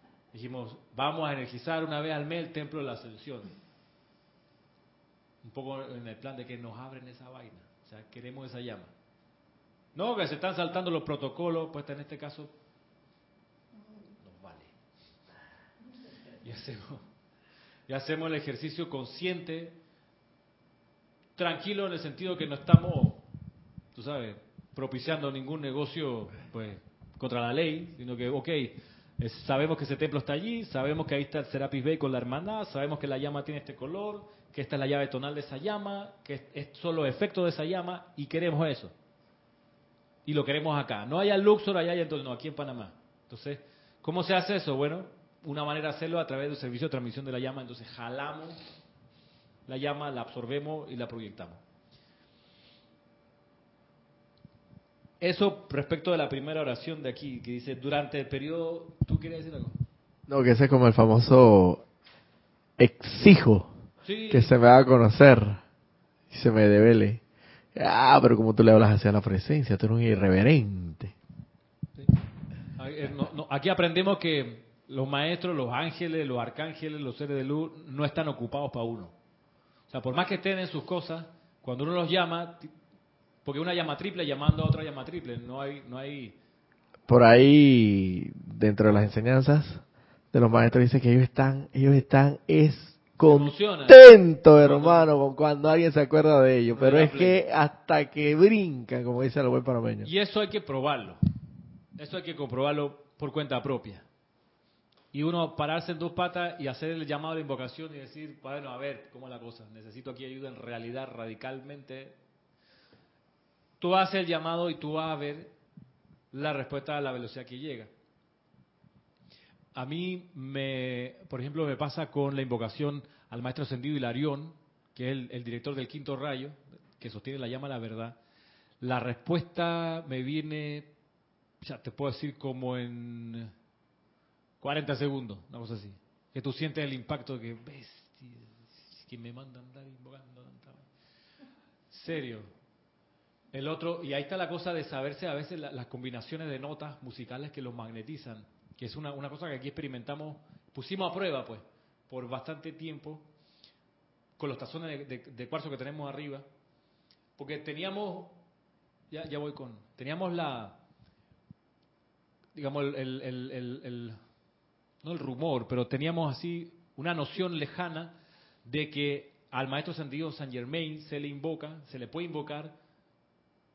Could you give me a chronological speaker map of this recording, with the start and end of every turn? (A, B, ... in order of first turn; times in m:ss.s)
0:00.3-0:03.6 A
0:05.4-0:08.9 A
0:10.0-0:12.5 A
0:14.2-0:14.7 A
0:16.4-0:17.1 A
0:17.9-0:19.8 A
0:21.4-0:23.2 A
0:23.9-0:38.9 A
0:40.2-0:48.6 A
0:49.7-0:51.6 A
0:55.2-0:59.8 A
1:00.3-1:01.8 B
1:02.8-1:03.7 B
1:04.0-1:04.5 A
1:04.3-1:05.6 B
1:06.3-1:07.2 B
1:07.8-1:11.2 B
1:12.8-1:19.2 A
1:19.9-1:22.7 A
1:23.4-1:26.4 A
1:27.1-1:40.1 B
1:33.2-1:35.1 A
1:36.7-1:37.4 A
1:40.0-1:41.2 A
1:42.0-1:44.1 A
1:45.1-1:52.2 A
1:53.8-1:55.5 A
1:56.3-1:57.9 A
1:59.7-2:08.2 A
2:08.8-2:11.0 A
2:11.6-2:13.5 A
2:14.6-2:20.9 A
2:21.9-2:22.5 A
2:23.5-2:33.3 A
2:34.4-2:36.5 A
2:37.4-2:38.4 A
2:39.1-2:40.8 A
2:42.6-2:44.2 A
2:45.0-2:52.8 A